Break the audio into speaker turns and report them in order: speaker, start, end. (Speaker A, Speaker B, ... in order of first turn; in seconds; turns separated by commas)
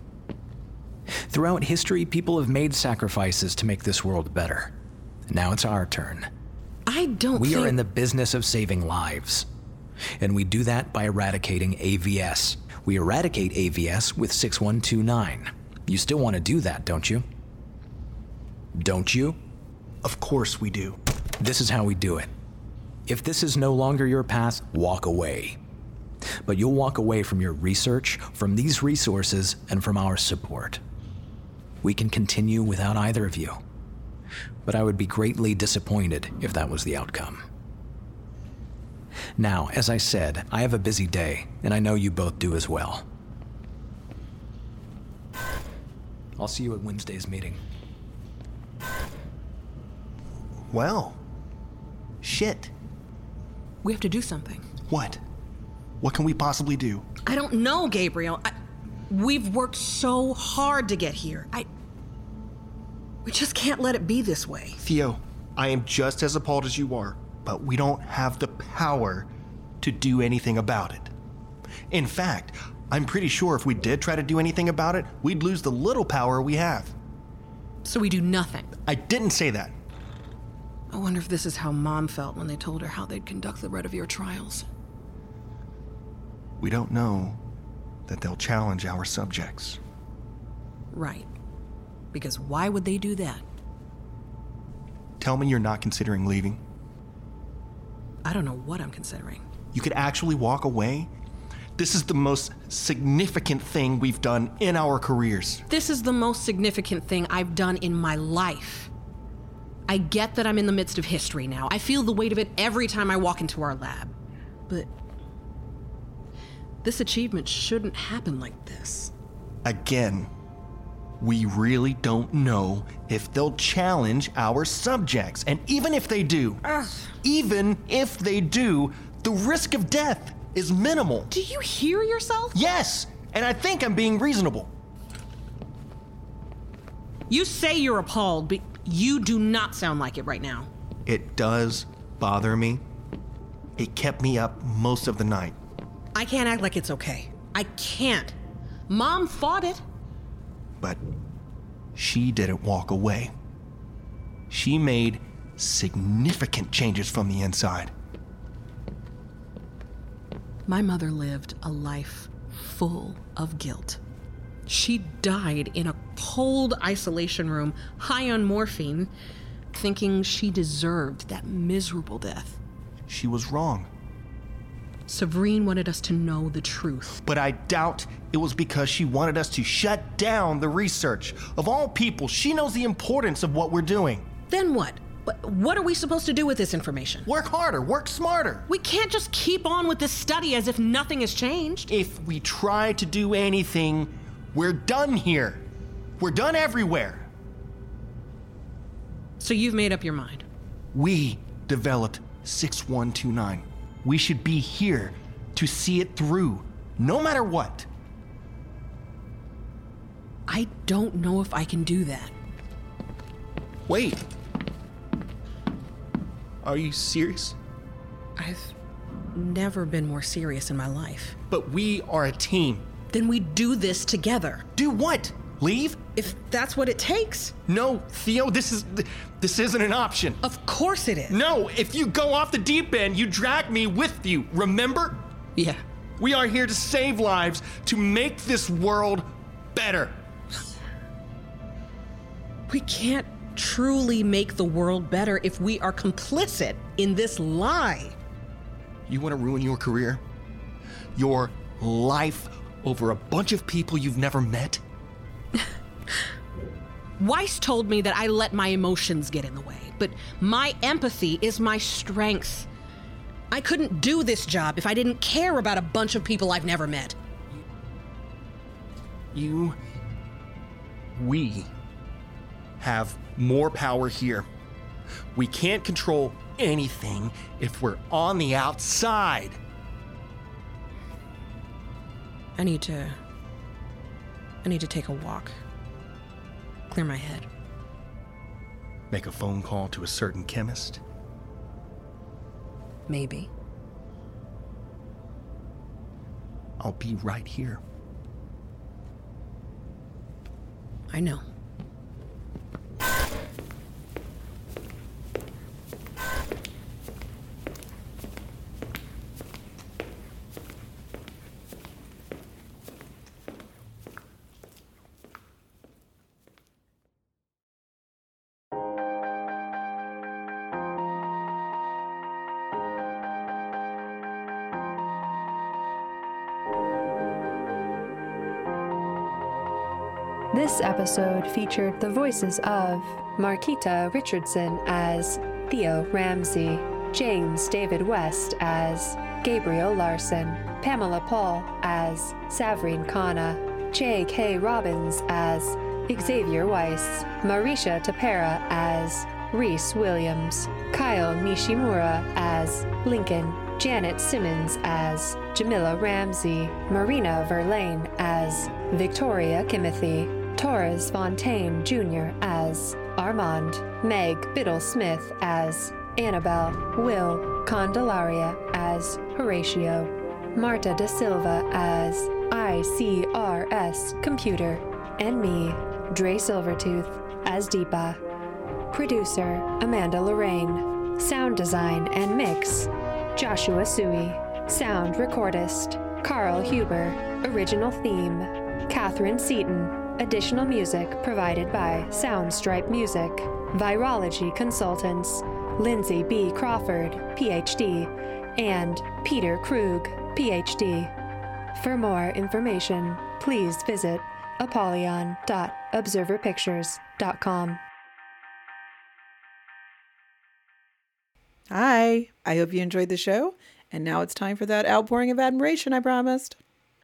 Speaker A: 1.3-4.7, Speaker A: 5.3-6.3, Speaker B: 6.8-7.7, Speaker A: 7.3-9.4, Speaker A: 10.2-17.2, Speaker A: 18.8-19.4, Speaker C: 20.0-21.0, Speaker A: 21.4-22.3, Speaker A: 23.1-25.6, Speaker A: 26.4-30.8, Speaker A: 31.8-33.6, Speaker A: 34.6-37.4, Speaker A: 39.4-43.0, Speaker A: 46.4-47.6, Speaker C: 50.7-51.2, Speaker C: 52.2-52.7, Speaker B: 53.8-54.6, Speaker C: 54.9-55.2, Speaker C: 56.0-57.0, Speaker B: 57.2-58.5, Speaker B: 59.1-61.7, Speaker B: 63.2-64.8, Speaker C: 64.8-69.3, Speaker C: 69.8-71.1, Speaker C: 71.9-76.9, Speaker B: 77.8-78.7, Speaker C: 78.9-79.7, Speaker B: 80.9-84.6, Speaker C: 86.6-87.4, Speaker C: 88.1-89.8, Speaker B: 90.9-91.3, Speaker B: 92.1-93.4, Speaker C: 95.2-96.6, Speaker B: 98.2-99.4, Speaker C: 99.7-101.1, Speaker C: 101.8-105.6, Speaker B: 105.7-108.9, Speaker B: 109.9-114.1, Speaker B: 116.8-119.1, Speaker C: 119.6-120.3, Speaker C: 121.2-126.6, Speaker B: 126.7-127.1, Speaker C: 127.2-131.3, Speaker B: 131.3-132.6, Speaker C: 132.5-134.7, Speaker B: 137.3-140.7, Speaker C: 141.1-142.8, Speaker C: 143.8-145.6, Speaker B: 146.1-148.3, Speaker B: 148.9-149.8, Speaker C: 151.9-153.3, Speaker C: 154.5-157.9, Speaker B: 160.7-164.0, Speaker B: 164.7-169.1, Speaker B: 169.7-172.6, Speaker C: 173.1-173.9, Speaker B: 175.1-177.2, Speaker C: 177.2-184.3, Speaker B: 184.5-187.3, Speaker C: 187.2-188.7, Speaker B: 188.7-191.9, Speaker C: 191.9-195.6, Speaker C: 196.2-197.3, Speaker B: 199.4-200.4, Speaker C: 200.9-207.9, Speaker B: 210.5-212.3, Speaker C: 213.9-214.2, Speaker C: 216.6-217.6, Speaker B: 218.4-218.7, Speaker B: 219.3-221.4, Speaker C: 221.5-222.8, Speaker B: 223.1-224.7, Speaker C: 224.7-226.0, Speaker B: 226.2-227.5, Speaker C: 227.7-230.4, Speaker B: 230.4-231.4, Speaker C: 231.3-235.2, Speaker B: 235.6-235.8, Speaker C: 236.2-240.2, Speaker B: 242.7-248.2, Speaker C: 249.1-250.2, Speaker C: 251.1-254.8, Speaker B: 257.2-262.7, Speaker B: 263.5-267.1, Speaker C: 269.3-269.8, Speaker C: 271.1-271.7, Speaker C: 272.8-274.5, Speaker C: 275.3-279.6, Speaker B: 282.6-283.1, Speaker B: 284.6-285.6, Speaker B: 286.9-287.5, Speaker C: 289.1-291.0, Speaker B: 293.1-293.5, Speaker C: 296.8-297.8, Speaker B: 301.1-301.4, Speaker D: 330.5-378.2, Speaker D: 378.9-401.1, Speaker D: 401.7-407.8, Speaker E: 411.7-416.6